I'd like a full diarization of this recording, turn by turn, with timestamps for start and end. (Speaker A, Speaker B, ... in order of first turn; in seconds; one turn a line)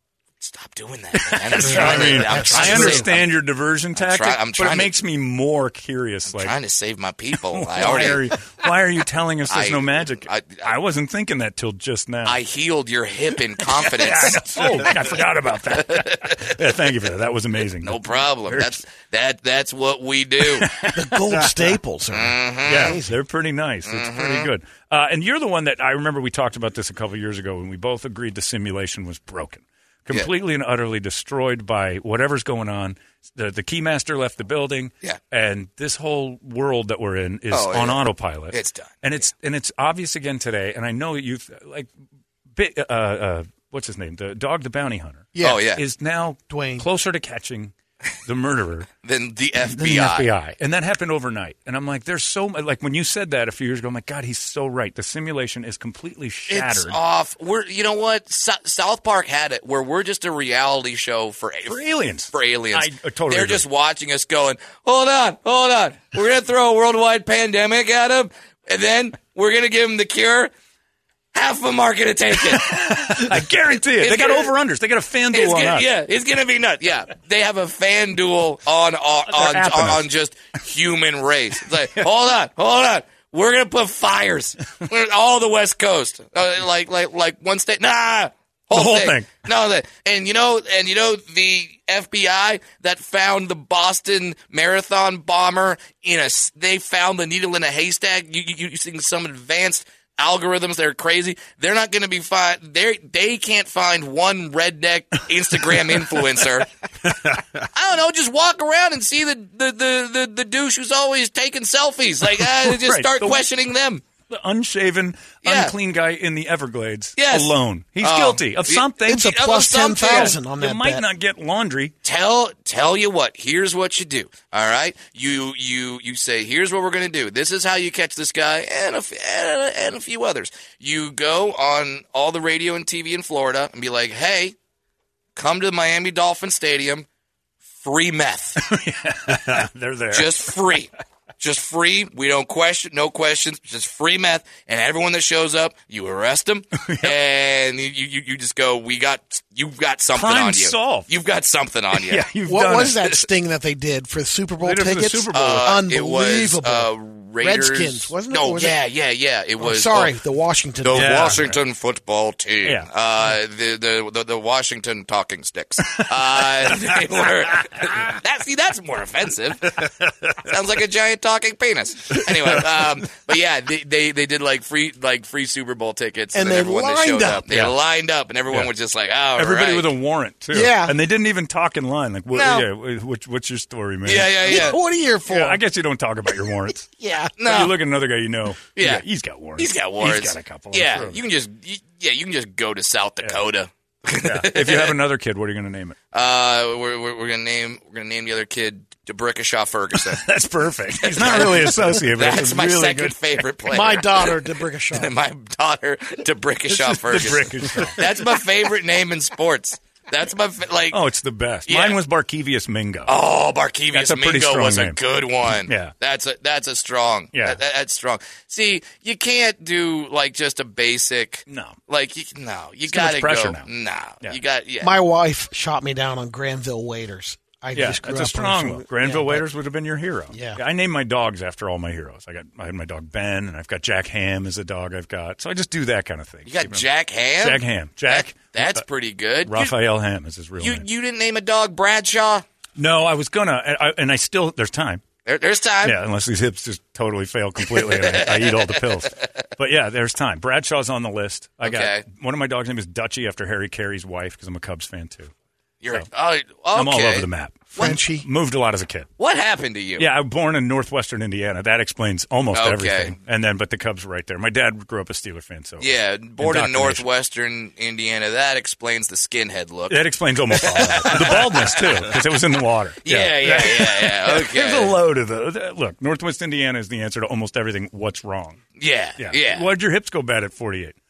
Speaker A: 0.4-3.3
Speaker B: 1.1-6.5
Speaker C: 1.6-3.1
Speaker A: 3.9-4.9
Speaker A: 6.4-8.3
Speaker B: 7.5-12.4
Speaker A: 9.5-10.7
Speaker A: 12.2-14.9
Speaker B: 13.7-18.8
Speaker A: 15.7-16.6
Speaker A: 17.8-20.8
Speaker B: 20.4-21.6
Speaker C: 20.9-23.1
Speaker A: 22.1-23.0
Speaker B: 22.7-41.9
Speaker A: 23.9-24.5
Speaker A: 37.5-38.9
Speaker B: 42.5-48.9
Speaker C: 45.3-45.6
Speaker A: 45.4-45.8
Speaker C: 46.5-46.8
Speaker A: 49.0-50.3
Speaker B: 49.7-57.0
Speaker A: 56.5-61.8
Speaker B: 61.7-63.6
Speaker A: 62.3-70.5
Speaker A: 71.3-73.2
Speaker B: 72.4-75.8
Speaker A: 74.0-74.5
Speaker A: 75.3-106.7
Speaker B: 79.3-80.0
Speaker B: 88.7-89.3
Speaker B: 107.1-107.6
Speaker A: 107.7-114.0
Speaker B: 112.4-113.4
Speaker B: 114.3-121.9
Speaker A: 115.4-115.7
Speaker A: 117.2-120.3
Speaker C: 119.0-121.0
Speaker A: 122.0-134.6
Speaker A: 135.3-137.1
Speaker A: 137.8-138.6
Speaker B: 138.6-140.5
Speaker A: 140.1-152.3
Speaker B: 146.8-147.1
Speaker B: 150.1-151.1
Speaker B: 151.9-153.1
Speaker C: 152.4-158.8
Speaker B: 154.6-155.8
Speaker A: 155.3-160.1
Speaker C: 159.6-161.3
Speaker A: 160.8-169.9
Speaker B: 160.9-161.6
Speaker A: 170.4-179.9
Speaker C: 176.3-177.4
Speaker B: 177.5-177.7
Speaker B: 179.4-186.9
Speaker C: 180.5-180.9
Speaker A: 182.3-182.7
Speaker A: 184.0-184.8
Speaker C: 184.5-185.6
Speaker C: 186.9-187.3
Speaker A: 187.4-187.8
Speaker B: 187.4-191.2
Speaker A: 188.8-189.0
Speaker A: 189.6-195.0
Speaker B: 194.2-195.9
Speaker A: 196.1-200.2
Speaker B: 200.1-203.2
Speaker A: 201.0-211.0
Speaker C: 203.7-205.1
Speaker B: 206.7-208.1
Speaker B: 210.9-213.1
Speaker A: 211.7-212.0
Speaker A: 213.1-224.9
Speaker B: 213.9-215.0
Speaker B: 215.6-215.9
Speaker B: 217.3-217.6
Speaker B: 221.5-221.8
Speaker B: 222.9-223.7
Speaker C: 224.8-229.4
Speaker B: 227.7-236.8
Speaker C: 230.3-230.6
Speaker A: 236.4-239.7
Speaker B: 237.4-238.8
Speaker B: 239.4-240.8
Speaker A: 240.6-242.4
Speaker B: 242.8-245.0
Speaker A: 245.2-246.0
Speaker B: 245.8-255.3
Speaker A: 247.7-249.0
Speaker A: 251.6-252.0
Speaker A: 255.8-258.0
Speaker B: 256.7-259.1
Speaker C: 257.8-258.2
Speaker A: 259.2-260.1
Speaker B: 260.0-267.0
Speaker A: 262.5-263.1
Speaker A: 265.8-272.1
Speaker B: 269.9-278.6
Speaker A: 273.0-274.9
Speaker A: 278.8-279.6
Speaker B: 279.2-281.0